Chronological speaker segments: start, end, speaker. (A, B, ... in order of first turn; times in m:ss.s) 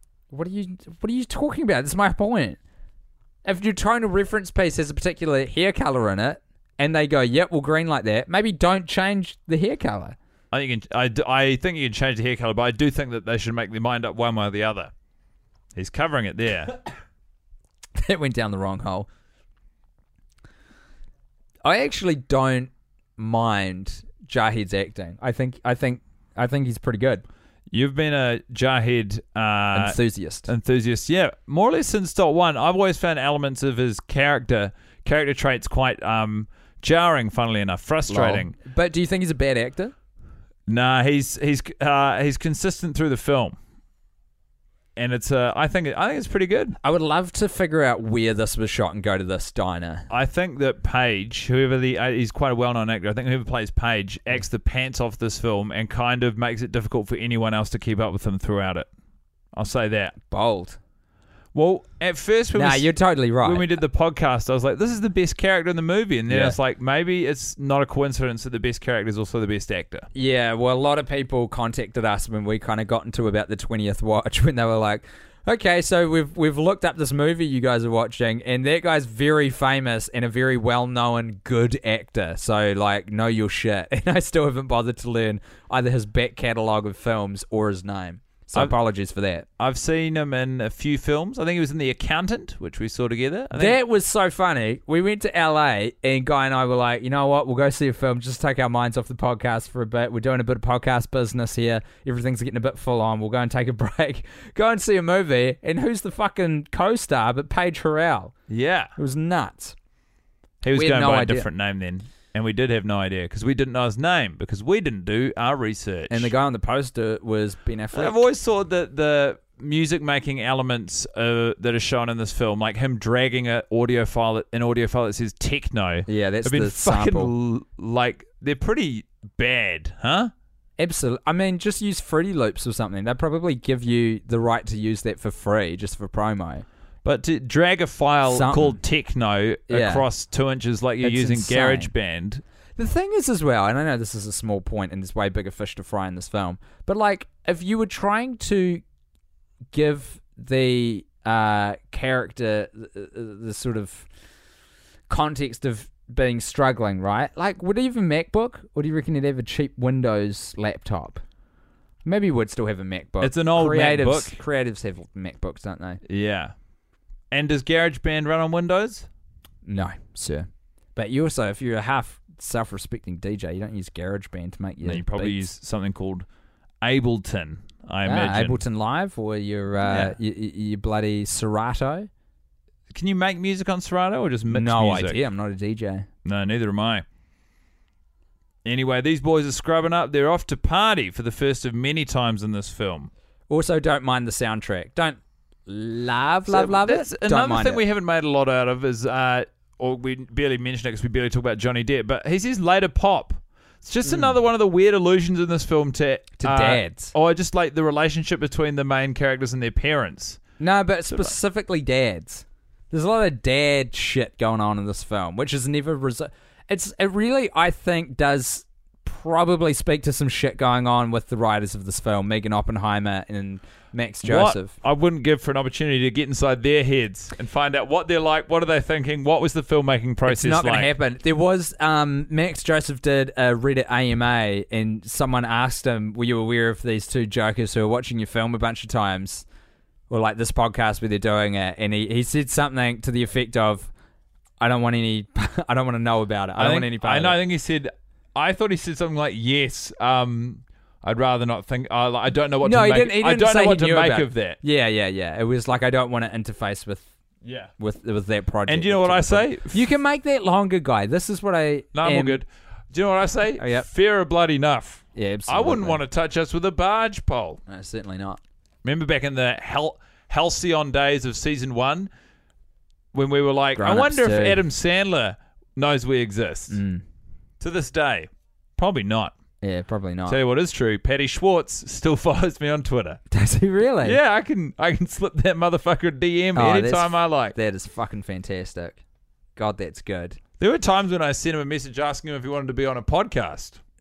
0:00.3-0:02.6 A
0:03.4-0:10.2 A
0:10.5-0:14.9 B
0:15.8-0:16.8 B
0:18.0-0:19.1 A
0:21.6-0:27.2 A
0:27.7-0:38.5 B
0:29.7-0:30.5 A
0:38.1-0:39.9 A
0:40.7-0:43.6 B
0:45.0-0:46.8 B
0:46.8-0:50.1 A
0:50.1-0:58.9 B
0:59.5-1:00.2 B
1:00.2-1:00.8 A
1:01.5-1:02.9 B
1:02.6-1:03.7 A
1:03.4-1:10.1 B
1:06.3-1:06.6 A
1:10.1-1:29.5 A
1:29.6-1:33.8 B
1:33.5-1:48.3 A
1:48.5-1:48.9 B
1:49.0-1:49.8 A
1:50.6-1:56.3 B
1:50.7-1:51.5 A
1:56.1-1:58.3 A
1:57.9-2:10.3 B
2:06.1-2:07.3 A
2:10.8-2:16.7 A
2:17.0-2:22.4 B
2:18.3-2:18.8 A
2:19.7-2:20.1 A
2:21.0-2:21.9 A
2:22.8-2:28.8 A
2:29.7-2:34.1 A
2:35.1-2:41.2 A
2:42.0-2:46.0 A
2:43.2-2:44.4 B
2:46.0-2:46.5 B
2:47.3-2:49.1 B
2:49.6-2:55.5 A
2:54.8-2:56.3 B
2:56.8-2:58.6 B
2:58.0-3:02.1 A
2:59.8-3:00.2 B
3:02.9-3:05.2 B
3:04.5-3:06.1 A
3:06.2-3:07.0 B
3:08.6-3:13.1 B
3:13.5-3:17.8 A
3:16.5-3:30.4 B
3:24.1-3:24.3 A
3:26.4-3:27.1 A
3:30.6-3:44.7 A
3:31.1-3:31.4 B
3:44.2-3:50.9 B
3:50.3-3:59.4 A
4:00.1-4:03.9 A
4:04.6-4:07.4 A
4:06.6-4:14.6 B
4:12.6-4:17.1 A
4:17.4-4:17.7 B
4:17.8-4:22.4 A
4:18.7-4:19.8 B
4:21.9-4:27.6 B
4:23.6-4:23.9 A
4:25.2-4:26.0 A
4:27.7-4:28.4 A
4:28.8-4:32.1 B
4:33.1-4:36.8 B
4:33.8-4:34.6 A
4:36.7-4:37.0 A
4:37.6-4:39.3 B
4:39.6-4:40.4 A
4:40.3-4:43.2 B
4:43.3-4:44.2 A
4:44.0-4:47.6 B
4:46.6-4:49.0 A
4:49.6-4:50.4 A
4:50.6-4:53.8 B